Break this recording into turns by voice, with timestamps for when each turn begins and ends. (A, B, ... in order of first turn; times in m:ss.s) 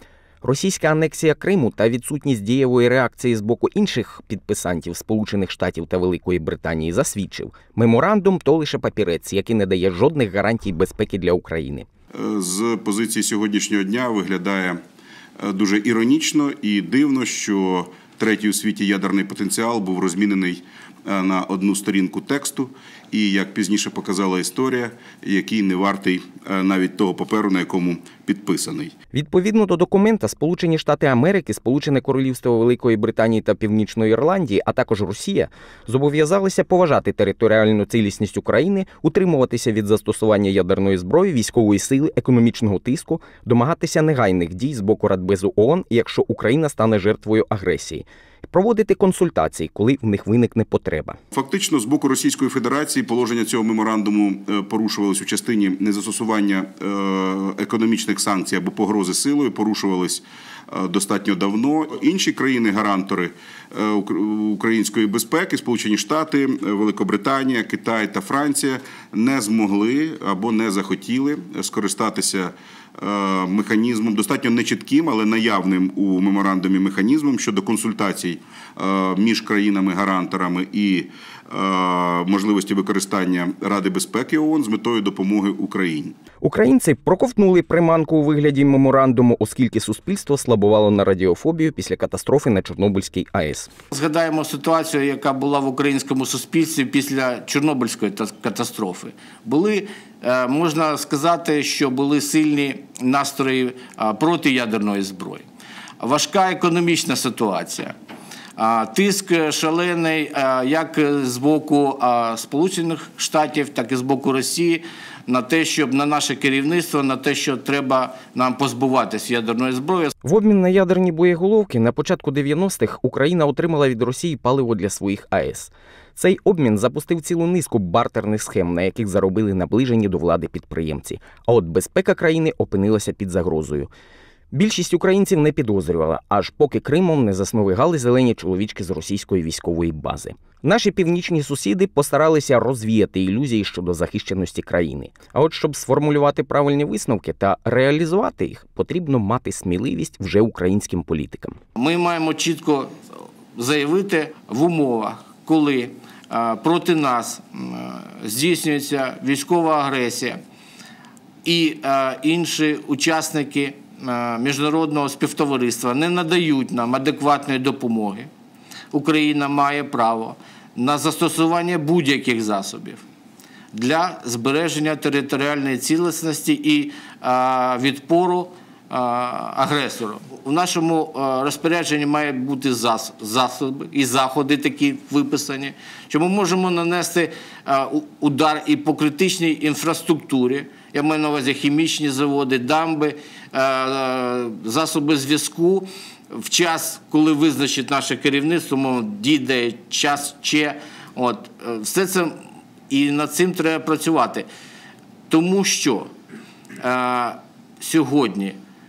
0:00.4-0:11.9 A
0:12.1-0:14.8 B
0:15.4-0:28.9 B
0:29.1-0:51.2 A
0:51.3-1:26.1 B
1:26.4-1:33.7 A
1:33.9-1:45.4 C
1:46.0-1:47.9 C
1:48.6-2:00.1 C
2:00.2-2:13.9 A
2:14.5-2:31.6 A
2:31.8-2:33.0 C
2:33.5-2:40.4 C
2:41.4-2:48.3 C
2:48.9-2:53.0 C
2:53.7-3:22.4 C
3:22.9-3:24.5 C
3:25.3-3:26.1 C
3:26.8-3:28.6 C